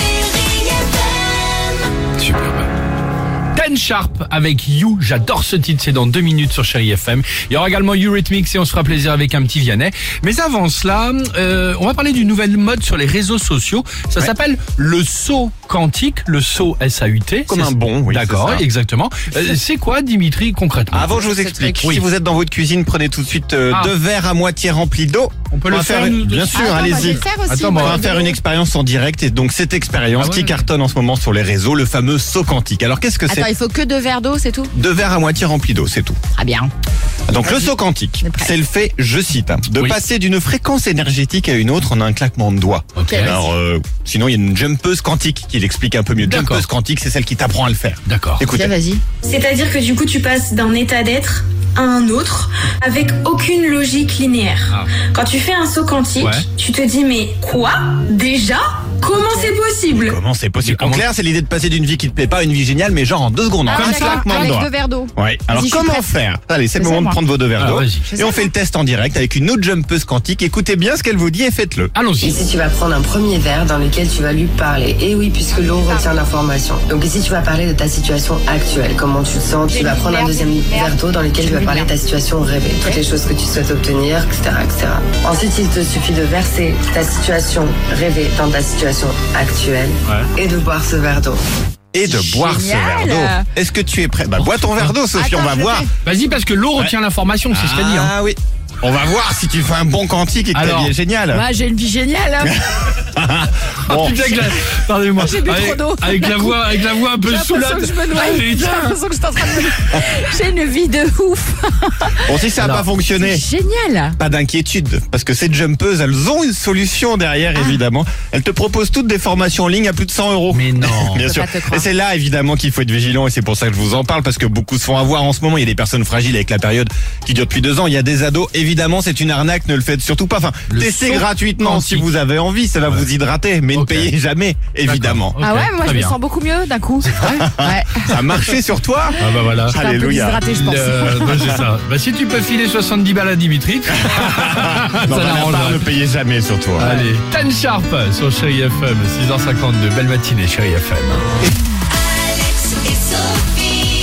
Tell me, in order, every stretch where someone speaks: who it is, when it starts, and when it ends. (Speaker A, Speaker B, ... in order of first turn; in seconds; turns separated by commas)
Speaker A: 0.2-1.4, Speaker B: 2.2-2.7, Speaker B: 3.5-21.2, Speaker C: 17.5-18.7, Speaker C: 20.9-27.2, Speaker D: 21.2-22.0, Speaker B: 23.7-24.0, Speaker B: 25.5-28.1, Speaker D: 26.5-28.4, Speaker C: 27.8-33.5, Speaker B: 30.1-30.6, Speaker D: 33.3-34.7, Speaker C: 34.7-36.2, Speaker D: 36.4-36.7, Speaker C: 37.3-48.7, Speaker D: 38.2-38.5, Speaker B: 43.0-43.4, Speaker D: 43.0-43.4, Speaker B: 46.2-46.7, Speaker B: 48.1-48.5, Speaker D: 48.8-49.0, Speaker A: 49.2-60.2, Speaker B: 56.1-56.5, Speaker D: 59.2-59.6, Speaker C: 59.9-71.9, Speaker B: 60.6-61.1, Speaker D: 63.6-66.1, Speaker D: 66.8-67.2, Speaker B: 67.6-68.1, Speaker D: 68.1-68.5, Speaker B: 71.9-72.4, Speaker E: 72.2-91.4, Speaker D: 75.5-76.2, Speaker D: 79.7-82.0, Speaker C: 91.9-95.9, Speaker D: 92.0-93.5, Speaker B: 94.4-95.0, Speaker D: 95.1-95.9, Speaker B: 96.0-98.1, Speaker C: 97.5-101.5, Speaker B: 100.5-100.9, Speaker D: 101.3-102.6, Speaker C: 102.4-104.5, Speaker B: 103.8-109.8, Speaker D: 105.2-112.3, Speaker C: 112.3-113.4, Speaker D: 113.2-114.2, Speaker C: 114.2-135.4, Speaker D: 117.5-117.8, Speaker B: 120.5-121.3, Speaker D: 121.3-121.9, Speaker B: 130.7-132.1, Speaker B: 133.7-134.1, Speaker B: 134.8-136.2, Speaker D: 135.4-138.1, Speaker B: 137.0-137.5, Speaker C: 137.2-140.5, Speaker B: 139.2-139.8, Speaker D: 139.8-141.5, Speaker B: 140.5-146.0, Speaker C: 143.9-146.9, Speaker B: 146.8-151.3, Speaker B: 152.6-153.0